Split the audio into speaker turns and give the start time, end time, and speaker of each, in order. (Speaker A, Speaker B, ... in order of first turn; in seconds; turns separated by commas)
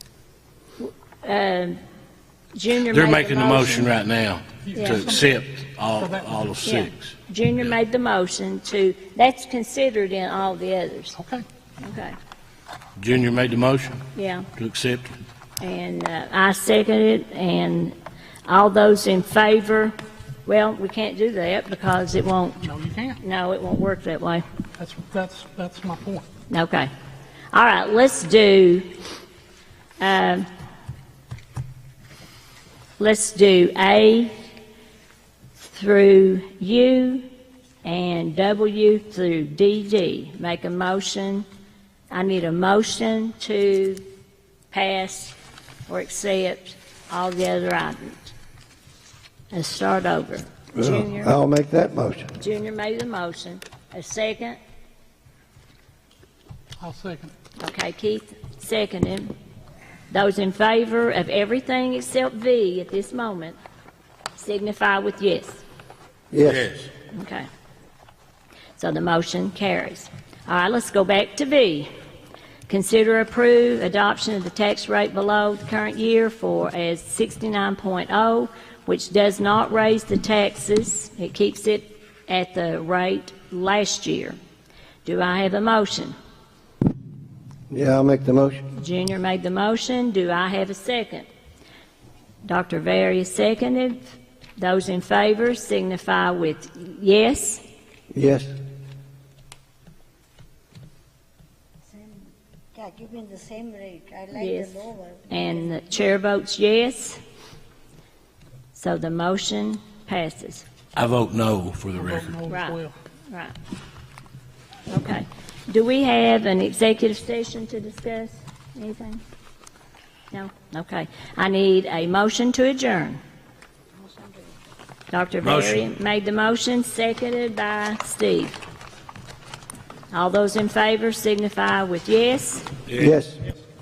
Speaker A: 0.8-1.8, Speaker A: 2.5-3.9, Speaker B: 2.9-7.2, Speaker C: 4.6-5.4, Speaker A: 4.8-5.1, Speaker C: 5.9-6.5, Speaker A: 6.6-11.2, Speaker C: 11.2-11.4, Speaker A: 11.8-12.2, Speaker B: 13.0-14.0, Speaker A: 14.2-14.5, Speaker B: 14.6-15.1, Speaker A: 15.6-17.9, Speaker A: 18.5-19.9, Speaker A: 20.5-22.6, Speaker C: 22.6-23.2, Speaker A: 23.2-24.4, Speaker C: 24.8-26.3, Speaker A: 26.5-26.9, Speaker A: 27.5-28.9, Speaker A: 30.0-30.5, Speaker A: 33.0-34.3, Speaker A: 35.6-37.2, Speaker A: 37.8-41.5, Speaker A: 42.1-44.0, Speaker A: 44.7-45.4, Speaker A: 45.9-48.3, Speaker A: 49.5-51.4, Speaker D: 50.8-52.3, Speaker A: 52.4-54.6, Speaker C: 56.8-57.3, Speaker A: 57.6-59.3, Speaker A: 60.1-63.6, Speaker A: 64.4-65.6, Speaker D: 66.3-66.7, Speaker B: 66.4-66.9, Speaker A: 67.1-67.5, Speaker A: 68.8-71.9, Speaker A: 72.7-84.4, Speaker A: 85.0-86.2, Speaker D: 87.7-88.6, Speaker A: 88.7-91.3, Speaker A: 92.5-97.6, Speaker D: 98.1-98.5, Speaker E: 102.0-102.2, Speaker E: 102.8-105.3, Speaker A: 104.3-107.2, Speaker A: 108.7-110.7, Speaker B: 111.0-112.3, Speaker C: 112.0-113.0, Speaker A: 112.5-113.5, Speaker A: 114.9-119.2, Speaker A: 120.3-123.2, Speaker A: 125.1-128.6, Speaker B: 125.4-125.8, Speaker A: 130.1-132.7, Speaker B: 132.9-133.2, Speaker D: 133.0-133.4